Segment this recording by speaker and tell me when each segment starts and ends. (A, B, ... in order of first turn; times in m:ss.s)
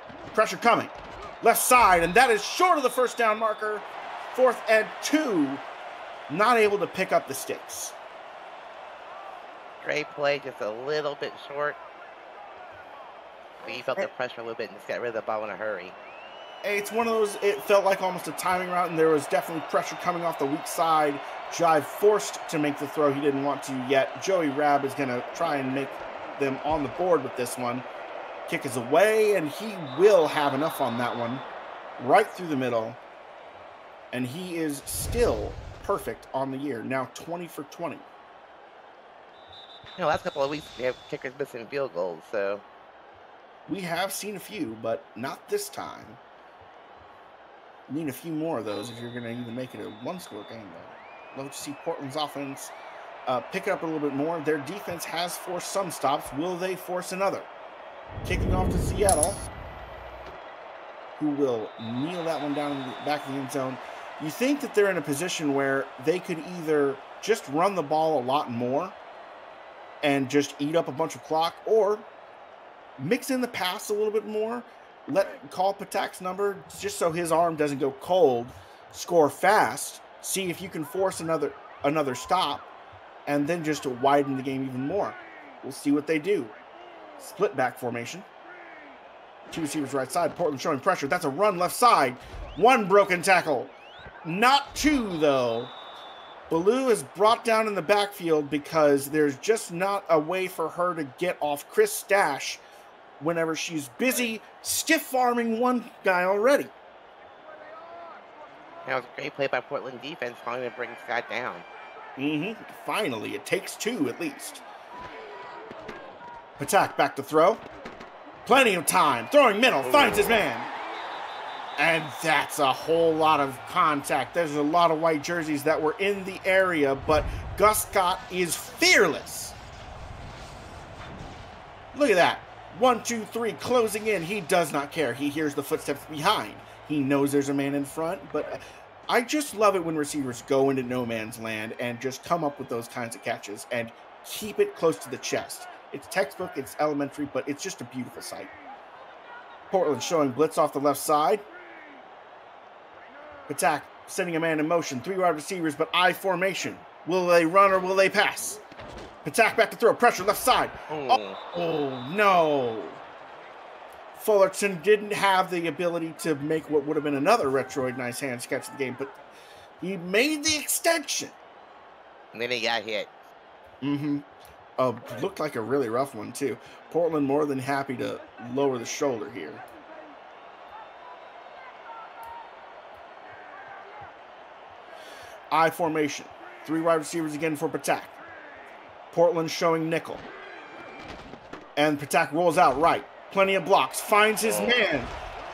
0:00.3-0:05.6 A
0:06.3-0:07.9 A
0:09.8-0:11.8 B
0:13.6-0:16.0 B
0:16.6-0:27.9 A
0:28.5-0:31.4 A
0:32.0-0:33.0 A
0:34.1-0:38.0 A
0:40.0-0:42.6 B
0:43.6-0:46.2 A
0:47.9-0:52.7 A
0:53.3-0:57.5 A
0:58.2-0:59.4 A
1:01.2-1:09.0 A
1:10.0-1:12.1 A
1:13.0-1:22.7 A
1:23.2-1:26.6 A
1:27.2-1:28.3 A
1:29.5-1:35.7 A
1:36.5-1:42.6 A
1:43.2-1:46.7 A
1:48.8-1:51.6 B
1:52.2-1:54.6 A
1:56.6-1:57.6 A
1:58.4-2:00.7 A
1:59.8-2:00.4 B
2:01.8-2:09.6 A
2:11.9-2:28.5 A
2:29.7-2:31.4 A
2:33.5-2:38.6 A
2:39.2-2:43.0 A
2:40.9-2:41.4 B
2:44.2-2:49.1 A
2:49.8-2:51.3 A
2:52.3-2:53.1 B
2:53.8-2:59.6 A
3:05.5-3:08.2 A
3:09.1-3:10.3 A
3:11.8-3:15.1 A
3:14.4-3:14.8 B